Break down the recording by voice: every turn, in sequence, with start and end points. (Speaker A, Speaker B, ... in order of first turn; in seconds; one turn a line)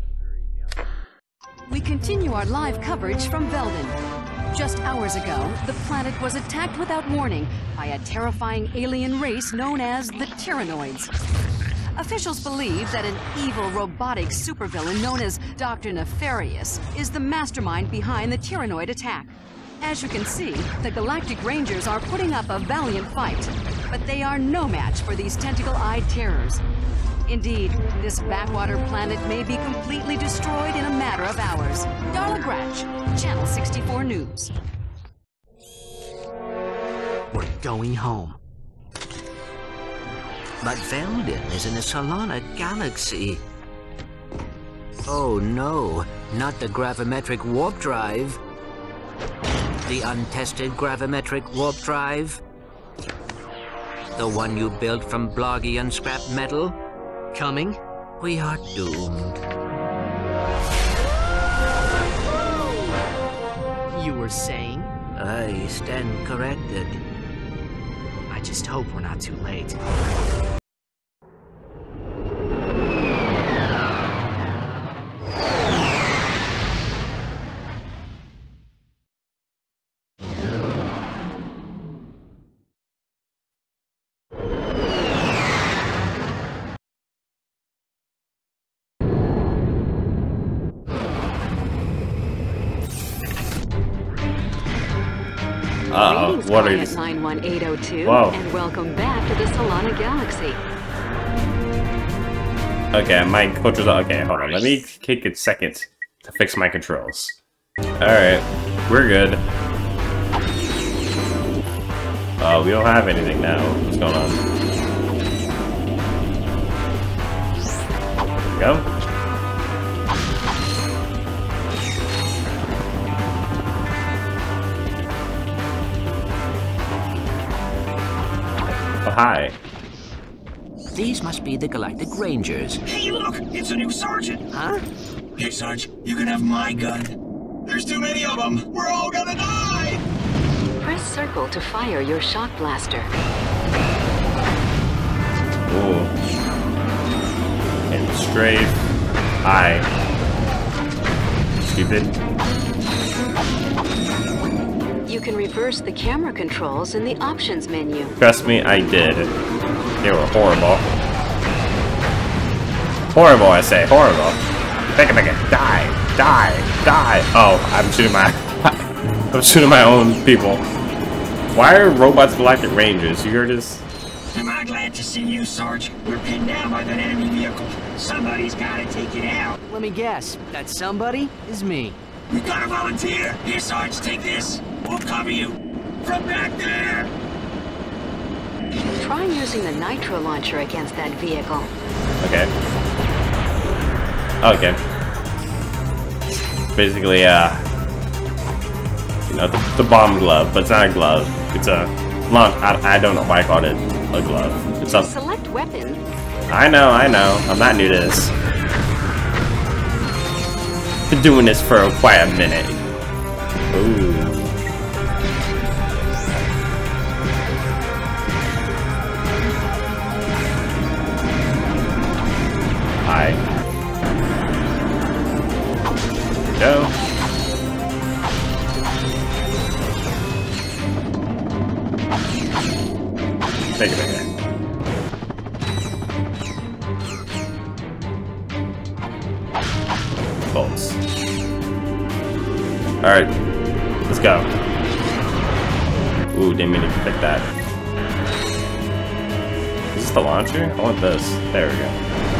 Speaker A: 1.7-4.0
Speaker A: 4.5-11.1
Speaker A: 11.9-26.6
Speaker A: 27.3-34.5
Speaker B: 37.3-38.4
Speaker C: 40.6-43.4
Speaker C: 45.0-48.4
Speaker C: 49.8-52.4
Speaker C: 54.1-56.8
Speaker B: 57.3-57.8
Speaker C: 58.2-59.4
Speaker B: 63.9-64.9
Speaker C: 65.2-67.0
Speaker B: 68.3-69.8
Speaker D: 95.9-97.0
Speaker A: 96.0-100.6
Speaker D: 98.0-98.4
Speaker D: 102.9-107.4
Speaker D: 108.0-109.4
Speaker D: 112.4-114.4
Speaker D: 118.5-118.9
Speaker D: 129.0-129.6
Speaker C: 130.9-132.8
Speaker E: 132.8-134.4
Speaker B: 134.5-134.8
Speaker E: 135.4-140.0
Speaker A: 140.8-143.1
Speaker D: 145.7-146.1
Speaker D: 147.9-148.8
Speaker D: 149.4-149.9
Speaker D: 151.6-152.2
Speaker A: 155.1-158.1
Speaker D: 158.2-159.3
Speaker D: 160.0-160.8
Speaker D: 163.1-170.6
Speaker D: 171.5-173.8
Speaker E: 174.3-179.6
Speaker B: 179.6-182.0
Speaker E: 182.3-187.1
Speaker A: 189.0-191.7
Speaker D: 192.2-192.5
Speaker D: 194.4-194.8
Speaker D: 196.7-197.6
Speaker D: 199.3-205.1
Speaker A: 205.0-206.0
Speaker D: 206.5-208.3
Speaker D: 211.1-212.8
Speaker D: 213.7-214.6
Speaker D: 223.0-223.4
Speaker D: 226.6-226.9
Speaker D: 233.8-234.3
Speaker D: 240.5-241.0
Speaker D: 243.0-243.3
Speaker D: 244.0-244.5
Speaker D: 246.3-247.5
Speaker D: 249.9-252.0